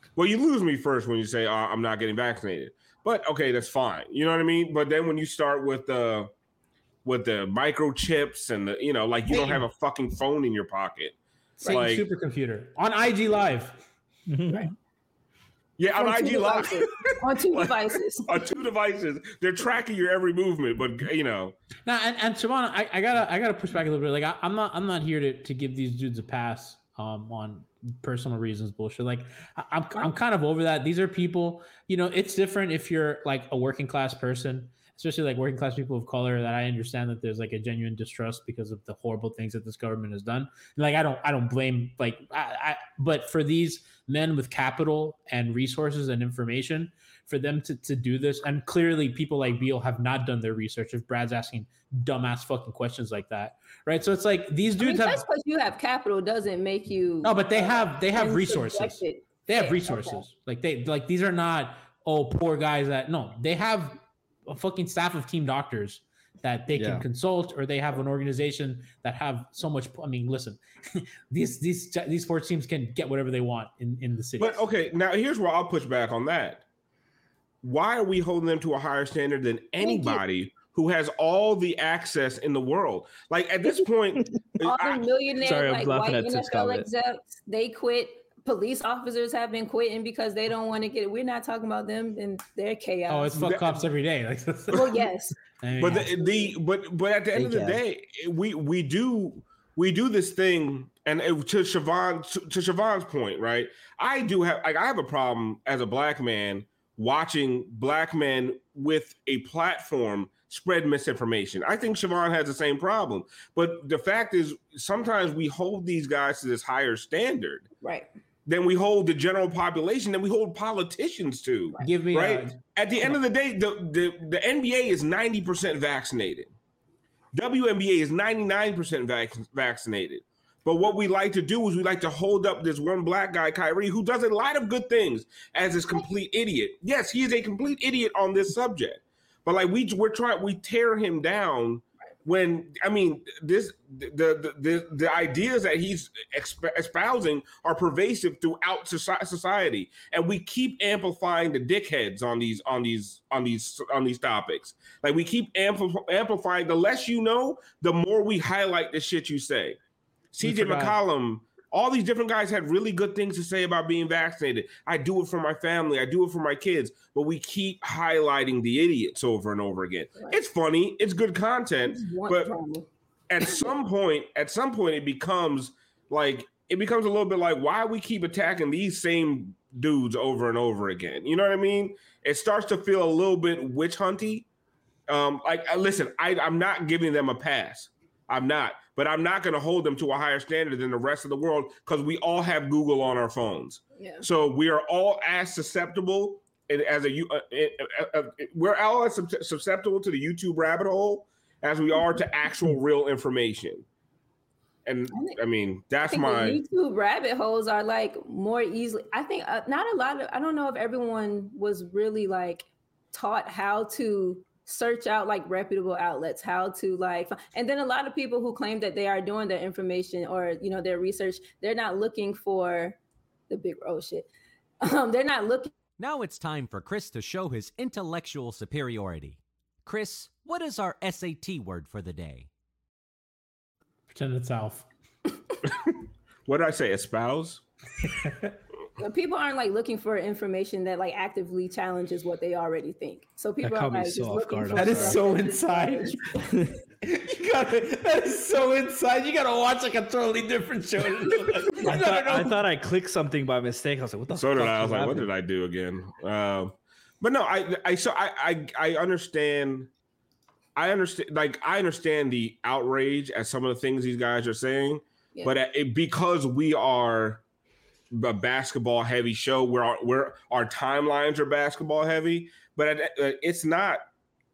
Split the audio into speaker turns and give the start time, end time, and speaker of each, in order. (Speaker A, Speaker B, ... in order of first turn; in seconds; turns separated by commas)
Speaker A: 0.1-6.3, Speaker A: 7.0-12.0, Speaker B: 9.3-9.6, Speaker C: 11.6-13.8, Speaker D: 14.3-14.7, Speaker A: 15.8-21.5, Speaker B: 16.0-18.3, Speaker C: 21.9-55.2, Speaker B: 54.8-60.2, Speaker C: 57.2-74.5, Speaker D: 66.8-67.0, Speaker A: 74.4-76.6, Speaker A: 77.6-85.0, Speaker B: 79.8-80.2, Speaker B: 84.6-93.4, Speaker D: 85.4-86.9, Speaker C: 93.1-95.0, Speaker A: 93.3-93.8, Speaker B: 94.7-95.4, Speaker C: 95.6-96.1, Speaker A: 95.8-117.7, Speaker B: 96.0-96.5, Speaker C: 97.4-97.7, Speaker D: 97.4-97.8, Speaker B: 117.8-118.1, Speaker A: 118.5-126.5, Speaker C: 121.8-123.1, Speaker A: 127.3-159.8, Speaker A: 160.3-172.5, Speaker C: 160.4-160.9, Speaker B: 171.9-172.9, Speaker A: 173.3-184.4, Speaker B: 173.4-173.7, Speaker A: 185.1-203.8, Speaker B: 193.9-194.2, Speaker A: 204.8-206.6, Speaker B: 205.1-205.4, Speaker B: 206.0-223.0, Speaker B: 223.5-224.3, Speaker B: 224.8-225.7, Speaker E: 226.0-232.5, Speaker C: 234.1-234.9, Speaker A: 235.6-237.6, Speaker C: 238.2-238.5, Speaker B: 239.0-246.2, Speaker D: 243.6-245.2, Speaker C: 244.7-246.5, Speaker D: 246.4-246.7, Speaker C: 247.0-252.6, Speaker D: 251.8-255.3, Speaker A: 254.4-259.9, Speaker A: 260.8-267.4, Speaker A: 268.1-274.1